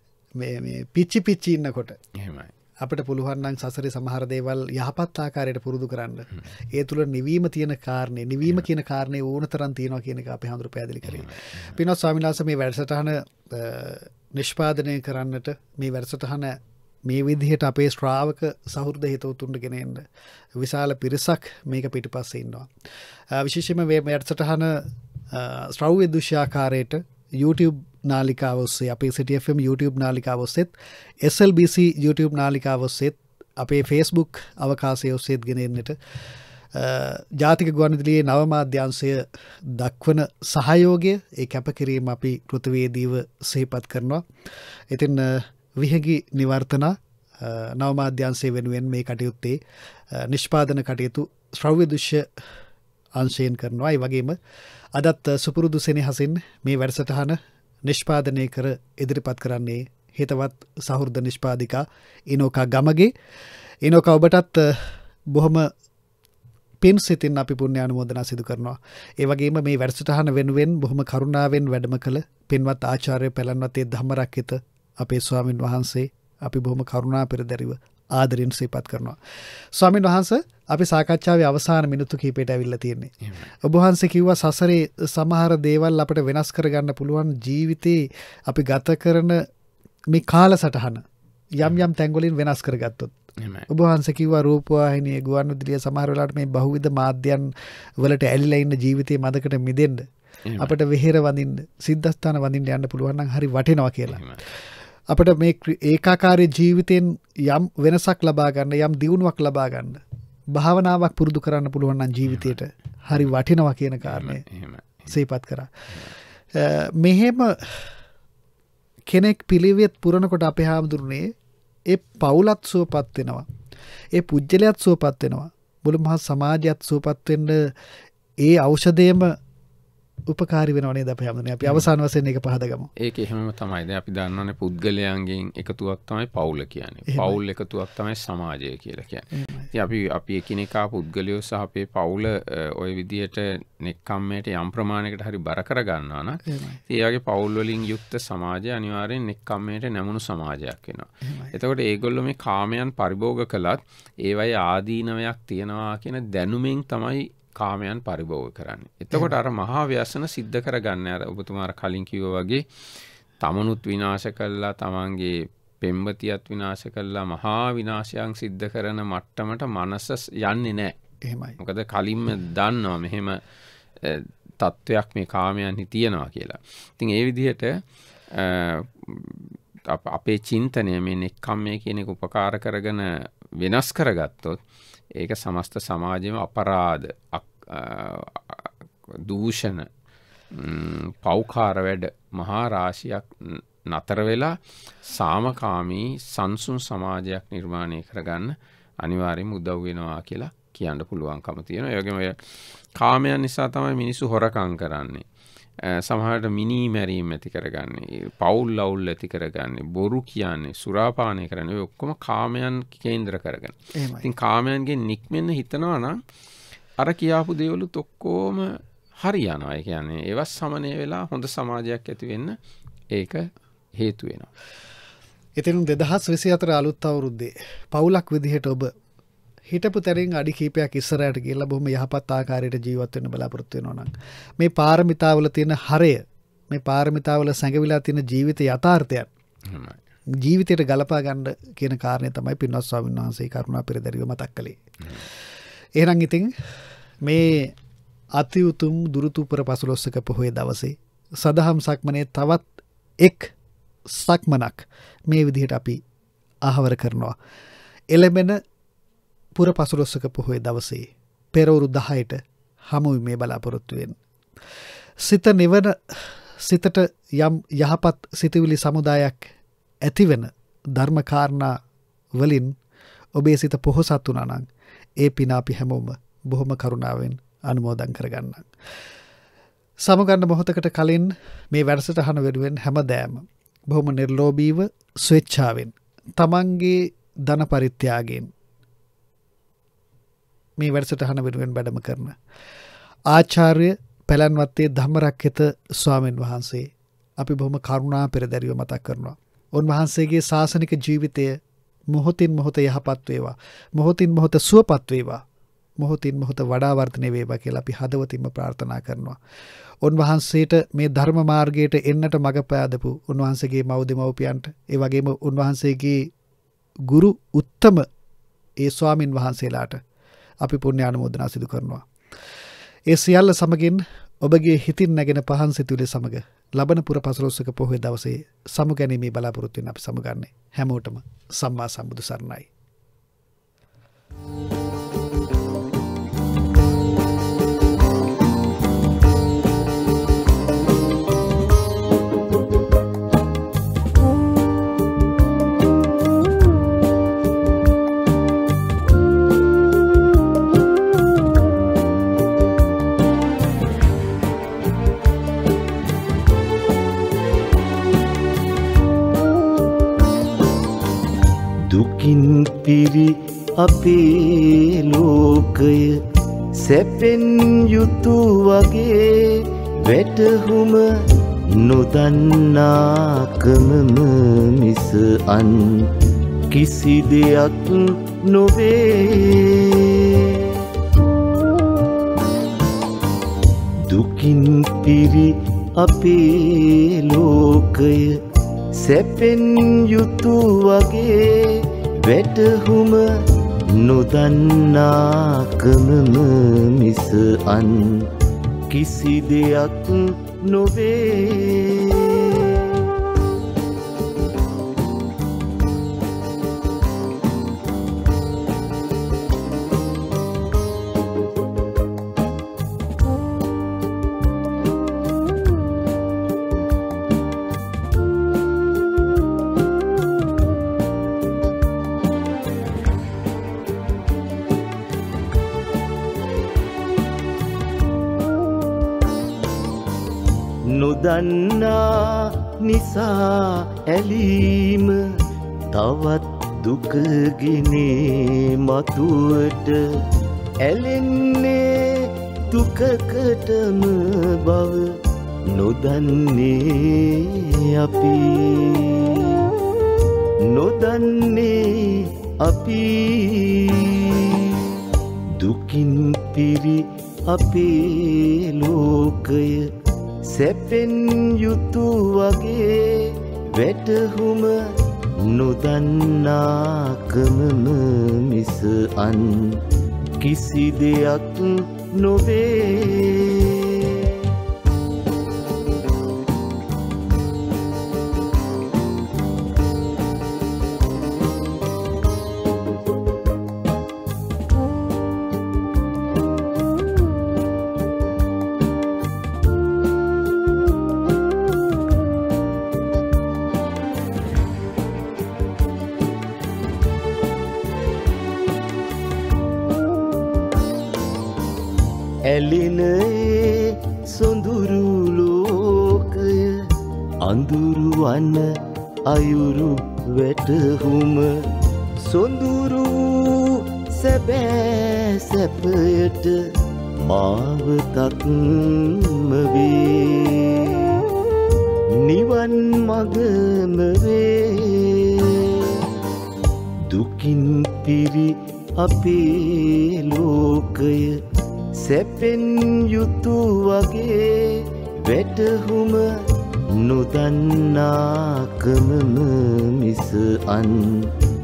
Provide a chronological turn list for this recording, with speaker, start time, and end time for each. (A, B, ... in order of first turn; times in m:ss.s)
0:00.4-0:02.0 A
0:02.2-0:02.5 B
0:02.8-0:20.0 A
0:11.1-0:11.8 B
0:20.6-0:22.7 A
0:23.3-0:30.7 A
0:31.2-0:36.0 A
0:36.7-0:44.3 A
0:44.9-0:49.6 A
0:50.1-0:52.3 A
0:53.2-0:54.4 A
0:55.0-1:03.1 A
1:03.8-1:05.7 A
1:06.8-1:19.2 A
1:19.7-1:29.4 A
1:30.1-1:33.1 A
1:33.4-1:33.7 B
1:33.7-1:40.1 A
1:40.5-1:40.7 B
1:40.6-1:44.4 A
1:44.1-1:44.4 B
1:45.1-1:50.0 A
1:50.5-1:54.4 A
1:52.3-1:52.6 B
1:54.0-1:55.1 B
1:55.1-1:55.7 A
1:56.6-1:57.9 A
1:59.1-2:01.3 A
2:01.9-2:03.5 A
2:04.1-2:07.7 A
2:08.4-2:09.4 A
2:10.3-2:12.9 A
2:13.0-2:42.6 B
2:17.1-2:17.4 A
2:19.3-2:19.7 A
2:26.5-2:26.8 A
2:31.2-2:31.5 A
2:43.4-2:51.0 B
2:51.2-2:51.6 A
2:51.6-2:53.4 B
2:54.0-3:04.6 B
3:05.2-3:09.9 B
3:10.5-3:22.4 B
3:23.0-3:25.2 B
3:25.8-3:36.2 B
3:34.0-3:34.3 A
3:37.0-3:42.6 B
3:43.1-3:44.5 B
3:45.6-3:48.9 A
3:49.7-3:59.3 A
3:59.6-4:00.0 B
4:00.4-4:04.8 A
4:06.0-4:06.6 A
4:07.2-4:07.8 A
4:08.4-4:12.7 A
4:13.2-4:13.5 A
4:14.1-4:16.0 A
4:16.6-4:17.4 A
4:18.1-4:18.6 A
4:19.6-4:22.4 A
4:22.9-4:24.2 A
4:25.2-4:29.5 A
4:30.0-4:31.8 A
4:32.4-4:32.8 A
4:33.4-4:34.7 A
4:35.2-4:38.7 A
4:40.0-4:48.5 A
4:50.8-4:52.4 A
4:53.3-5:01.6 A
5:02.1-5:05.4 A
5:06.0-5:09.4 A
5:10.0-5:16.3 A
5:17.1-5:18.1 A
5:18.8-5:20.0 A
5:20.6-5:22.1 A
5:23.1-5:32.7 A
6:01.9-6:06.2 C
6:06.8-6:16.1 C
6:16.7-6:20.8 C
6:24.1-6:28.4 C
6:28.9-6:33.3 C
6:33.9-6:38.3 C
6:38.9-6:43.1 C
7:10.9-7:15.4 C
7:15.9-7:20.0 C
7:20.8-7:25.2 C
7:25.7-7:29.7 C
7:30.7-7:35.0 C
7:35.6-7:39.9 C
7:40.4-7:49.8 C
7:50.4-7:54.5 C
8:22.5-8:26.8 C
8:27.4-8:31.6 C
8:32.2-8:36.7 C
8:37.2-8:41.2 C
8:42.1-8:46.0 C
8:47.1-8:51.4 C
8:51.9-8:56.3 C
8:56.9-9:01.3 C